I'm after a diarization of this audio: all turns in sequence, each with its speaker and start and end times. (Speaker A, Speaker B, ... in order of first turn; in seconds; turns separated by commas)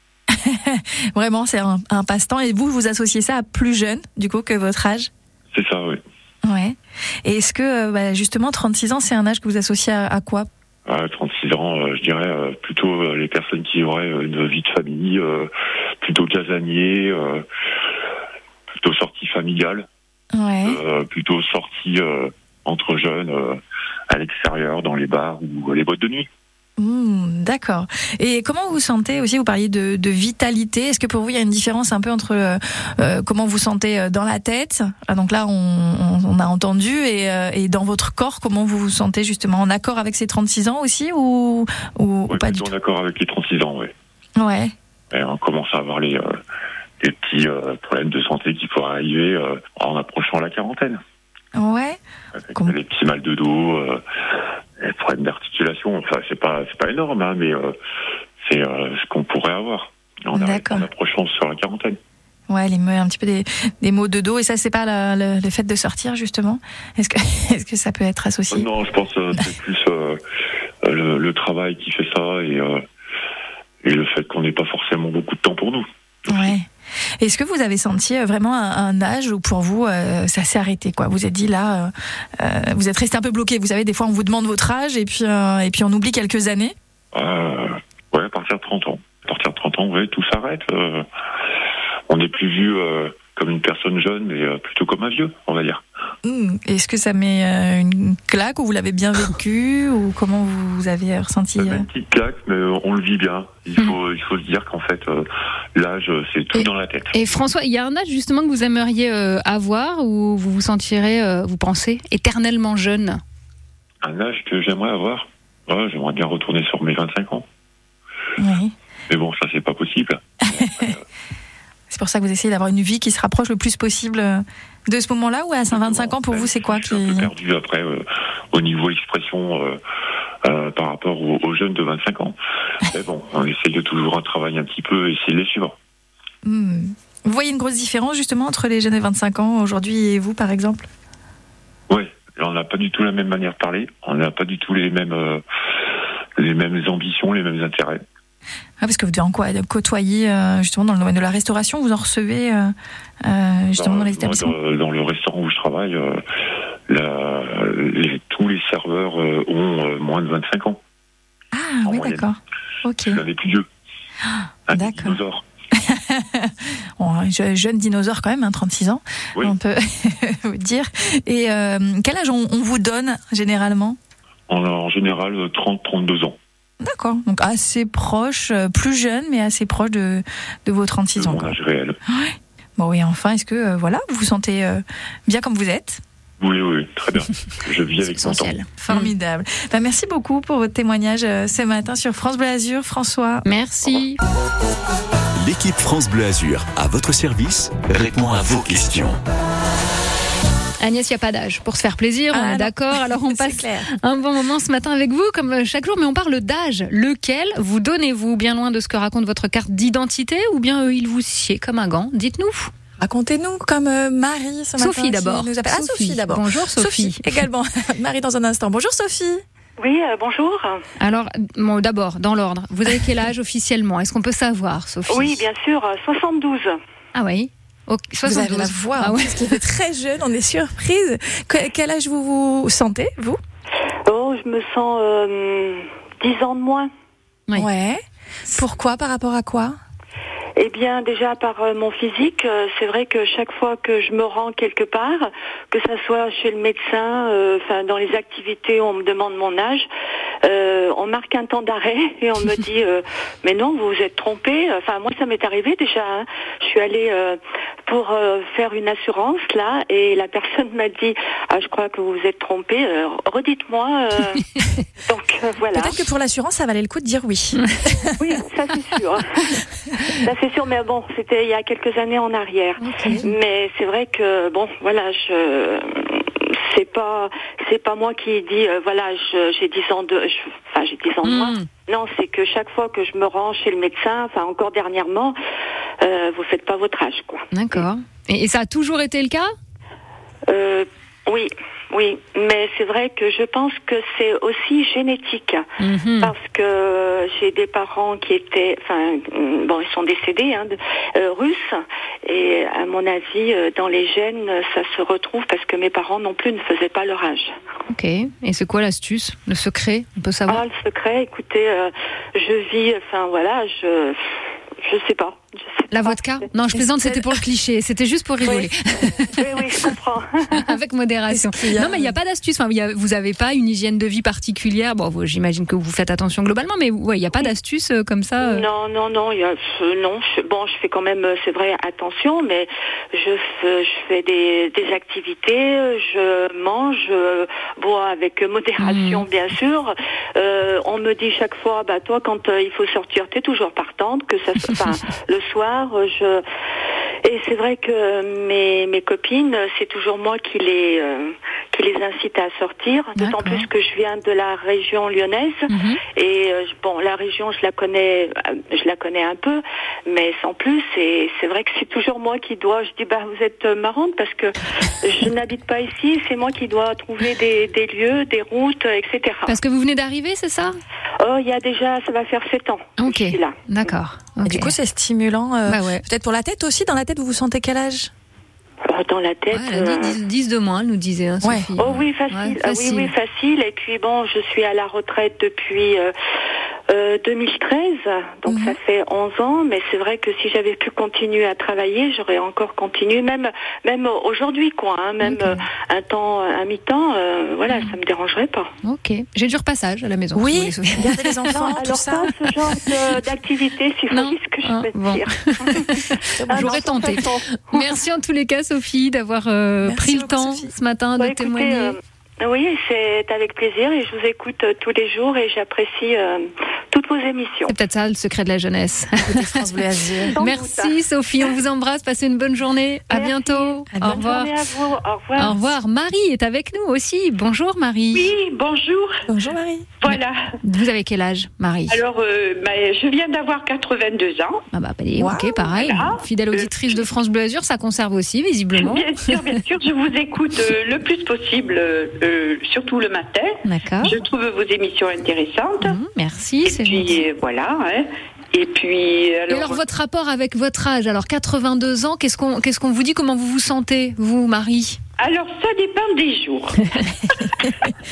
Speaker A: 0.3-5.1, Speaker B: 5.5-6.0, Speaker A: 6.4-10.5, Speaker B: 10.8-15.5, Speaker B: 16.0-17.4, Speaker B: 18.8-19.9, Speaker A: 20.3-20.8, Speaker B: 20.6-23.6, Speaker B: 24.1-26.3, Speaker A: 26.8-42.7, Speaker B: 42.3-43.9, Speaker A: 44.4-44.7, Speaker B: 45.1-46.4, Speaker B: 47.0-51.0, Speaker A: 51.5-52.0, Speaker B: 52.4-54.0, Speaker B: 54.8-57.8, Speaker B: 58.4-62.0, Speaker A: 60.3-60.9, Speaker A: 62.5-68.7, Speaker B: 68.5-70.2, Speaker B: 70.8-72.8, Speaker B: 73.8-76.5, Speaker A: 76.3-76.7, Speaker A: 77.2-86.7, Speaker B: 87.1-91.0, Speaker B: 92.1-95.8, Speaker A: 96.2-101.9, Speaker B: 101.6-107.3, Speaker C: 107.1-113.2, Speaker B: 114.0-117.4, Speaker A: 118.4-118.7, Speaker B: 119.1-121.0, Speaker A: 120.5-120.9, Speaker A: 121.9-127.3, Speaker B: 125.7-129.8, Speaker B: 130.4-135.8, Speaker A: 136.4-140.9, Speaker B: 141.9-145.4, Speaker B: 146.4-148.0, Speaker A: 148.8-154.5, Speaker B: 153.8-156.2, Speaker B: 156.9-160.8, Speaker A: 161.5-163.2, Speaker B: 161.8-162.2, Speaker B: 163.1-163.7, Speaker A: 164.3-165.2, Speaker B: 164.7-165.4, Speaker A: 165.7-174.0, Speaker B: 174.5-176.4, Speaker A: 176.8-181.6, Speaker B: 181.2-182.0, Speaker A: 182.1-186.0, Speaker B: 186.4-188.5, Speaker C: 188.1-189.1, Speaker A: 188.8-193.4, Speaker C: 193.4-194.2, Speaker D: 195.4-199.2, Speaker C: 200.8-212.7, Speaker A: 202.3-203.9, Speaker A: 213.0-219.4, Speaker C: 214.8-217.3, Speaker E: 219.8-220.8, Speaker C: 221.0-225.4, Speaker E: 225.1-226.8, Speaker C: 227.1-229.6, Speaker A: 228.2-233.4, Speaker E: 234.1-236.9, Speaker A: 237.5-239.8, Speaker E: 240.6-249.9, Speaker E: 250.4-264.5, Speaker E: 265.0-265.9, Speaker A: 265.7-268.1, Speaker E: 268.2-285.4, Speaker C: 272.8-273.3, Speaker C: 281.2-281.7, Speaker E: 286.0-287.8, Speaker C: 287.5-289.5, Speaker E: 290.5-295.6, Speaker C: 295.8-296.3, Speaker E: 296.2-307.5, Speaker C: 307.9-310.6, Speaker E: 310.5-314.2, Speaker E: 314.8-316.4, Speaker C: 315.9-319.4, Speaker E: 319.2-320.7, Speaker C: 320.5-328.6, Speaker A: 321.3-322.1, Speaker E: 328.4-346.4, Speaker C: 338.8-339.2, Speaker E: 347.2-369.6, Speaker A: 353.2-353.6, Speaker C: 355.7-356.0, Speaker C: 369.4-370.8, Speaker E: 371.2-373.6, Speaker C: 373.0-374.7, Speaker A: 374.4-378.1, Speaker C: 375.7-376.0, Speaker E: 378.9-380.2, Speaker C: 379.5-383.1, Speaker A: 381.4-381.7, Speaker E: 381.8-386.1, Speaker E: 386.9-398.7, Speaker A: 388.5-388.8, Speaker C: 395.2-395.6, Speaker C: 398.8-401.7, Speaker A: 400.3-402.3, Speaker E: 401.5-408.0, Speaker C: 404.1-411.9, Speaker A: 406.4-407.2, Speaker A: 409.8-410.7, Speaker E: 411.2-417.7, Speaker C: 417.7-419.6, Speaker A: 419.2-420.3, Speaker E: 420.3-420.9, Speaker C: 420.4-424.5, Speaker E: 423.1-425.6, Speaker A: 423.9-424.3, Speaker C: 425.4-428.3, Speaker F: 428.1-429.2, Speaker A: 429.3-429.9, Speaker F: 430.0-430.6, Speaker C: 430.1-432.0, Speaker F: 431.9-434.6, Speaker C: 434.7-439.3, Speaker A: 435.2-435.5, Speaker F: 435.6-437.0, Speaker F: 438.8-446.0, Speaker C: 443.6-444.1, Speaker C: 445.8-447.2, Speaker F: 446.6-449.8, Speaker C: 449.5-455.0, Speaker F: 455.2-457.5